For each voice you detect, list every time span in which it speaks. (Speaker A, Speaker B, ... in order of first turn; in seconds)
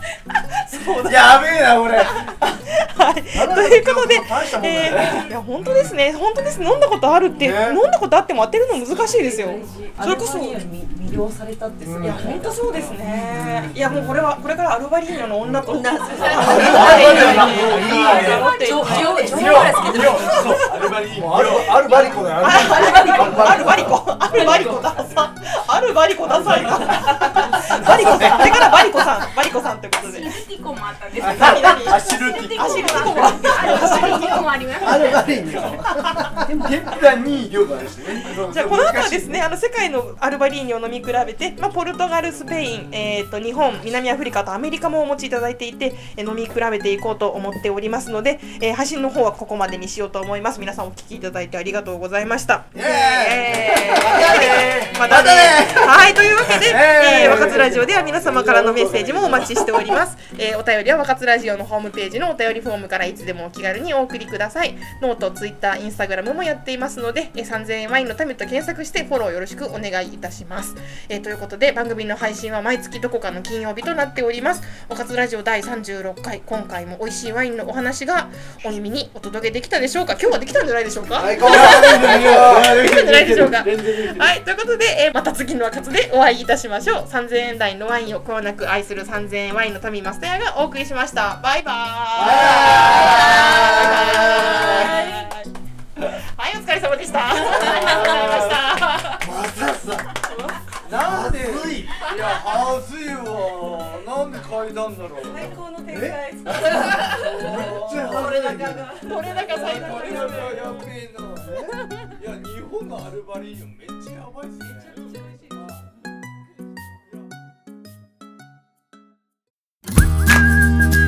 Speaker A: 0.3-1.2, 2.0-10.6, 12.0-20.9, 22.4-30.3, 31.2-32.0, 32.5-34.5, 38.5-95.5, 96.1-99.2, 109.0-110.4
Speaker B: 1.0-2.3, 16.6-25.1, 26.2-28.7, 31.2-34.2, 35.5-39.4, 52.8-59.6, 81.3-84.3, 92.1-95.0, 97.5-98.6, 99.2-100.0, 100.8-105.6, 106.5-108.6, 109.1-111.6, 112.1-115.1
Speaker C: 3.3-5.2, 7.4-7.8, 11.8-12.2, 16.4-18.2, 21.1-24.7, 34.8-36.8, 52.8-55.7, 57.1-57.7, 81.2-82.8, 99.4-99.9, 101.0-102.1, 105.9-106.7, 107.3-109.0, 111.4-111.8
Speaker D: 8.9-13.1, 15.7-17.1, 18.5-20.4
Speaker E: 16.2-20.6, 22.5-24.0, 27.2-27.6, 105.2-110.8, 114.6-115.7
Speaker F: 30.0-35.3